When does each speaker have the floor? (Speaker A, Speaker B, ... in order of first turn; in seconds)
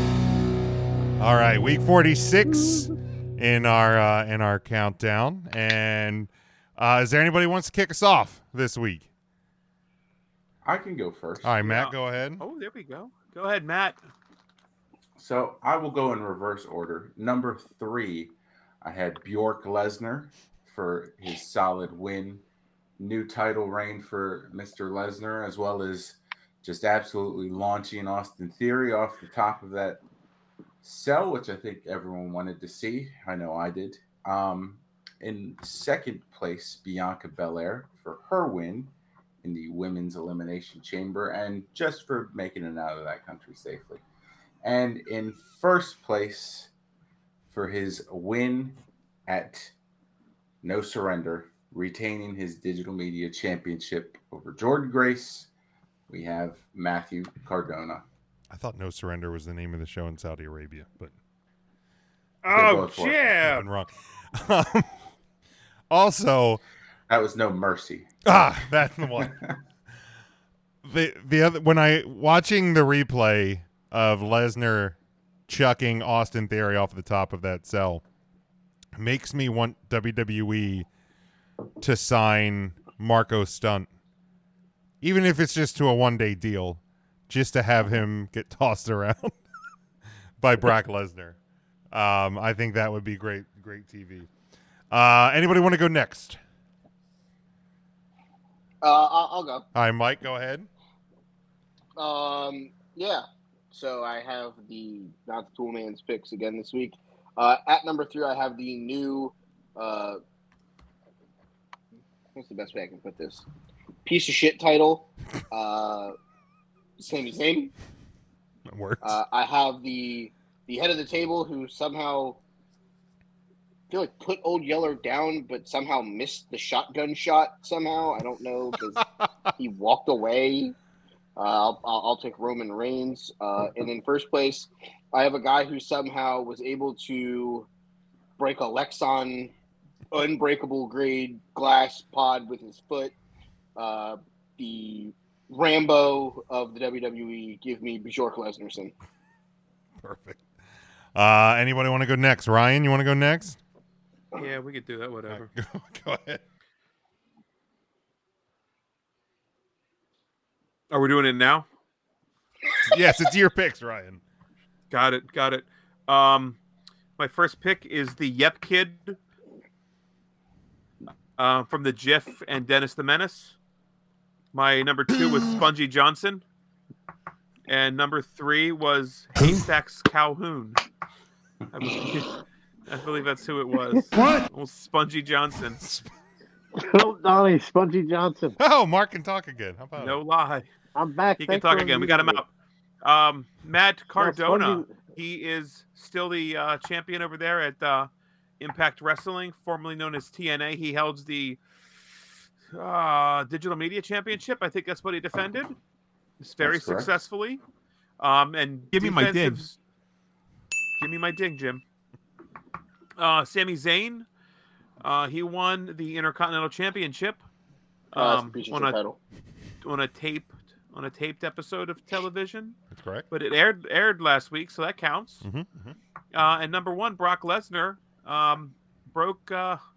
Speaker A: 1.2-9.1, 11.4-12.4, 58.5-61.1, 63.4-64.9, 65.9-66.6, 68.2-69.3, 70.8-75.0, 75.5-78.0, 79.0-80.9, 81.8-83.9, 85.0-89.4, 90.4-91.4, 91.9-94.3, 94.9-96.4, 99.7-100.7, 118.7-119.2, 129.0-129.2, 150.0-150.4, 151.1-153.6, 155.3-156.4, 162.9-164.2, 185.8-186.1, 188.6-190.2, 209.0-209.6, 222.9-223.3, 225.4-225.9
Speaker B: 10.6-11.7, 15.2-22.4, 23.0-30.0, 30.8-44.0, 44.6-46.7, 47.5-49.7, 50.6-55.5, 56.1-58.0, 62.5-63.2, 67.1-68.1, 69.2-69.5, 206.6-207.1
Speaker C: 11.7-14.0, 62.4-63.6, 154.3-155.5, 160.9-161.7, 164.9-166.6, 167.2-169.2, 171.4-173.6, 174.5-176.4, 177.7-180.8, 181.7-185.8, 189.9-190.7, 191.4-192.5, 193.0-201.6, 202.7-205.7, 206.4-207.6, 208.2-209.7, 211.0-211.8, 213.2-214.3, 215.0-217.4, 218.1-219.0, 219.8-222.8, 223.3-225.5, 226.3-229.8
Speaker D: 98.8-99.6, 102.0-110.2, 112.3-113.4, 114.0-116.1, 117.0-117.7, 119.0-122.4, 123.9-129.0, 129.6-130.8, 131.4-137.7, 138.4-139.5, 140.1-143.1, 143.8-148.9, 218.1-219.2
Speaker E: 186.8-188.6, 190.9-192.4, 194.1-195.1